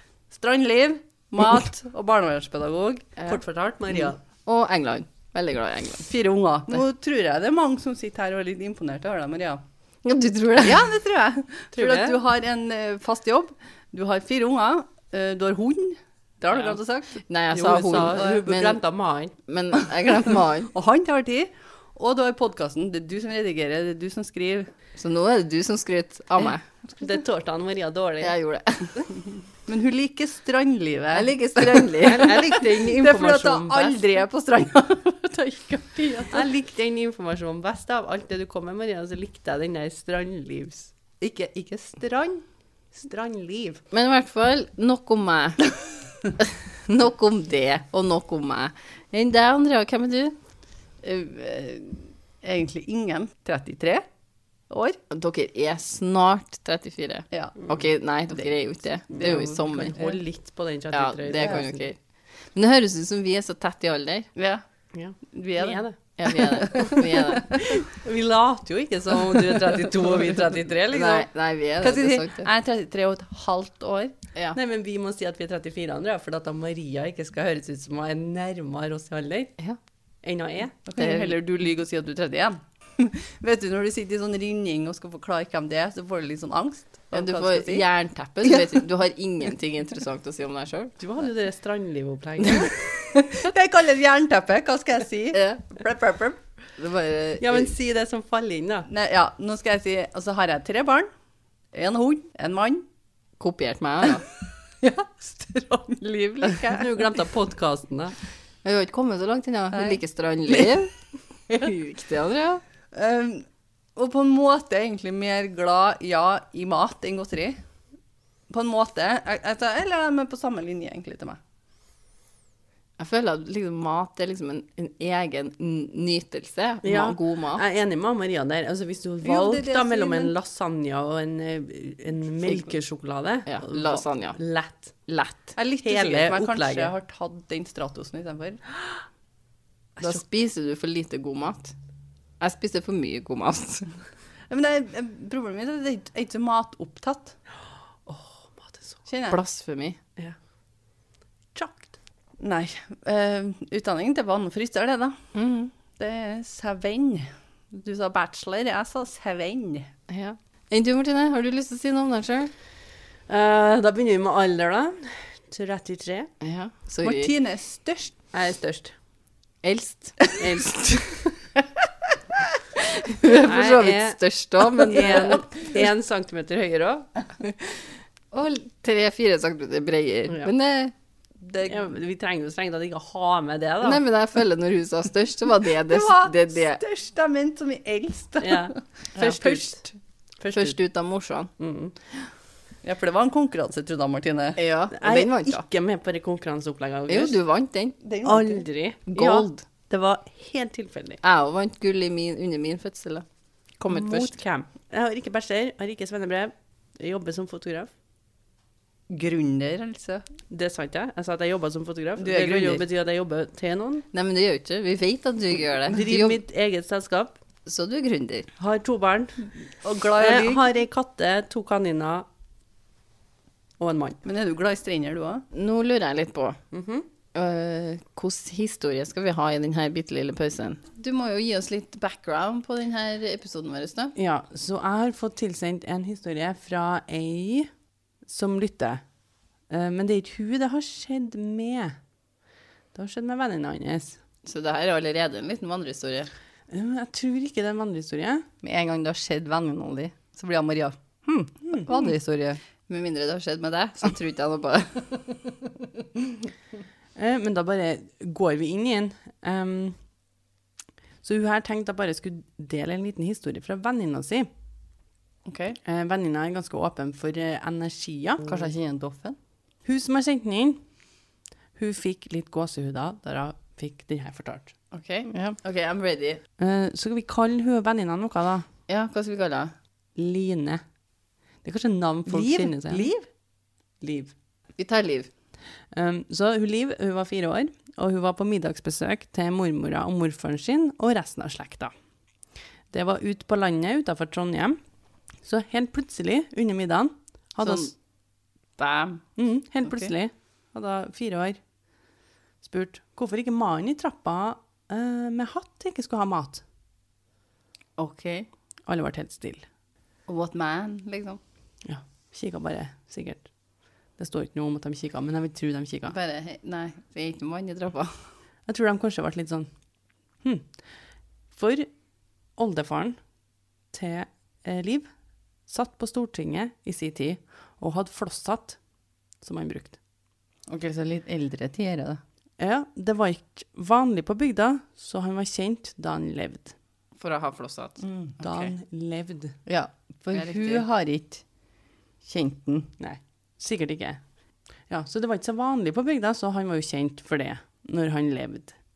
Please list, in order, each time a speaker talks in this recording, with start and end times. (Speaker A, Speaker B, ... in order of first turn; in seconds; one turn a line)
Speaker A: 0.3-3.0
Speaker B: 3.2-4.2
Speaker C: 4.4-6.1
Speaker A: 6.1-9.6
Speaker C: 10.0-10.8
Speaker A: 10.6-17.2
Speaker B: 11.7-12.2
Speaker B: 16.5-16.8
Speaker C: 17.2-18.8
Speaker B: 17.5-19.3
Speaker A: 18.0-18.5
Speaker C: 19.4-20.7
Speaker A: 20.7-24.7
Speaker C: 25.0-26.6
Speaker B: 26.8-28.3
Speaker C: 28.2-29.2
Speaker A: 29.7-36.5
Speaker C: 31.1-32.5
Speaker B: 32.0-34.0
Speaker B: 36.3-41.2
Speaker A: 41.2-42.2
Speaker B: 42.0-42.4
Speaker B: 42.9-43.8
Speaker C: 43.9-50.4
Speaker A: 51.0-54.0
Speaker A: 54.7-55.0
Speaker C: 55.1-60.1
Speaker A: 57.3-57.6
Speaker B: 59.1-61.8
Speaker A: 59.9-60.1
Speaker C: 60.9-62.0
Speaker A: 61.3-61.6
Speaker C: 62.5-64.4
Speaker B: 64.9-71.3
Speaker A: 65.3-65.8
Speaker C: 66.2-67.6
Speaker A: 66.6-67.3
Speaker A: 69.1-70.4
Speaker C: 70.9-72.5
Speaker A: 71.8-74.1
Speaker B: 74.5-79.5
Speaker B: 80.2-80.8
Speaker A: 80.8-87.8
Speaker C: 81.0-81.3
Speaker C: 87.1-90.9
Speaker A: 88.4-88.8
Speaker B: 91.0-92.9
Speaker C: 92.6-93.2
Speaker A: 93.1-96.4
Speaker C: 95.3-95.7
Speaker C: 96.8-97.7
Speaker B: 97.4-98.9
Speaker A: 98.9-101.1
Speaker A: 101.7-102.8
Speaker C: 103.4-104.2
Speaker A: 104.8-106.0
Speaker C: 106.0-106.8
Speaker B: 106.6-108.1
Speaker C: 108.6-110.9
Speaker A: 109.7-110.7
Speaker C: 111.5-112.6
Speaker A: 112.9-113.4
Speaker A: 114.0-117.6
Speaker A: 118.5-121.4
Speaker C: 123.0-127.6
Speaker B: 126.8-134.9
Speaker A: 129.2-130.3
Speaker C: 132.4-132.7
Speaker C: 133.4-134.4
Speaker C: 135.1-135.6
Speaker A: 135.6-138.6
Speaker B: 135.8-136.9
Speaker C: 140.0-141.7
Speaker C: 142.4-143.9
Speaker A: 144.5-147.3
Speaker B: 148.1-149.0
Speaker A: 149.1-149.4
Speaker C: 149.3-150.0
Speaker B: 151.5-151.9
Speaker A: 152.4-155.2
Speaker C: 155.3-155.7
Speaker A: 156.0-159.9
Speaker C: 160.1-162.5
Speaker B: 163.3-166.3
Speaker C: 166.4-167.3
Speaker A: 167.0-168.1
Speaker B: 168.3-168.9
Speaker C: 169.6-171.2
Speaker B: 170.4-171.0
Speaker C: 172.8-175.4
Speaker B: 173.4-177.1
Speaker C: 178.3-180.9
Speaker B: 181.6-184.0
Speaker C: 183.8-186.8
Speaker A: 185.9-189.8
Speaker B: 188.4-189.7
Speaker C: 189.2-189.8
Speaker B: 190.4-190.8
Speaker C: 190.5-191.5
Speaker B: 191.6-191.9
Speaker A: 192.8-194.6
Speaker C: 194.6-195.6
Speaker B: 194.9-197.4
Speaker C: 197.1-197.9
Speaker A: 198.0-198.7
Speaker B: 198.2-201.2
Speaker C: 199.1-199.6
Speaker C: 201.2-203.2
Speaker C: 203.8-204.3
Speaker B: 203.9-207.9
Speaker A: 209.1-210.2
Speaker B: 210.5-214.0
Speaker A: 212.2-212.8
Speaker C: 214.1-216.4
Speaker B: 215.9-217.3
Speaker C: 217.6-218.5
Speaker B: 218.6-219.5
Speaker A: 219.8-220.7
Speaker B: 220.2-222.2
Speaker B: 223.8-224.2
Speaker A: 224.2-225.4
Speaker C: 225.5-226.6
Speaker B: 226.7-227.1
Speaker C: 227.3-234.1
Speaker B: 234.2-237.7
Speaker B: 238.2-239.0
Speaker B: 239.7-241.9
Speaker B: 242.9-244.2
Speaker C: 244.4-246.3
Speaker B: 246.7-248.5
Speaker A: 248.6-252.6
Speaker C: 251.9-252.1
Speaker C: 252.8-255.4
Speaker B: 257.1-259.9
Speaker B: 261.2-264.5
Speaker C: 265.4-265.8
Speaker B: 265.8-268.4
Speaker A: 268.4-269.4
Speaker B: 269.8-270.8
Speaker B: 271.8-274.7
Speaker C: 274.9-276.4
Speaker B: 276.6-278.6
Speaker C: 278.9-279.7
Speaker B: 280.1-280.8
Speaker B: 281.6-283.1
Speaker A: 282.3-283.2
Speaker B: 284.0-284.3
Speaker C: 284.8-285.3
Speaker B: 285.9-291.9
Speaker B: 292.9-294.8
Speaker B: 295.4-297.9
Speaker C: 297.6-297.9
Speaker C: 298.8-299.2
Speaker B: 299.4-301.6
Speaker B: 302.6-306.6
Speaker C: 308.0-308.5
Speaker B: 308.9-309.6
Speaker C: 310.3-311.4
Speaker B: 311.8-313.5
Speaker B: 314.2-316.1
Speaker C: 316.1-318.3
Speaker B: 318.7-319.7
Speaker B: 321.5-321.9
Speaker B: 322.6-323.2
Speaker B: 323.9-325.1
Speaker B: 325.7-328.8
Speaker B: 329.4-330.0
Speaker A: 330.7-332.2
Speaker B: 332.6-336.7
Speaker C: 337.2-338.7
Speaker A: 338.0-338.4
Speaker B: 338.4-339.6
Speaker A: 339.6-341.4
Speaker C: 340.3-340.9
Speaker A: 342.2-342.9
Speaker B: 343.0-344.2
Speaker B: 344.9-348.8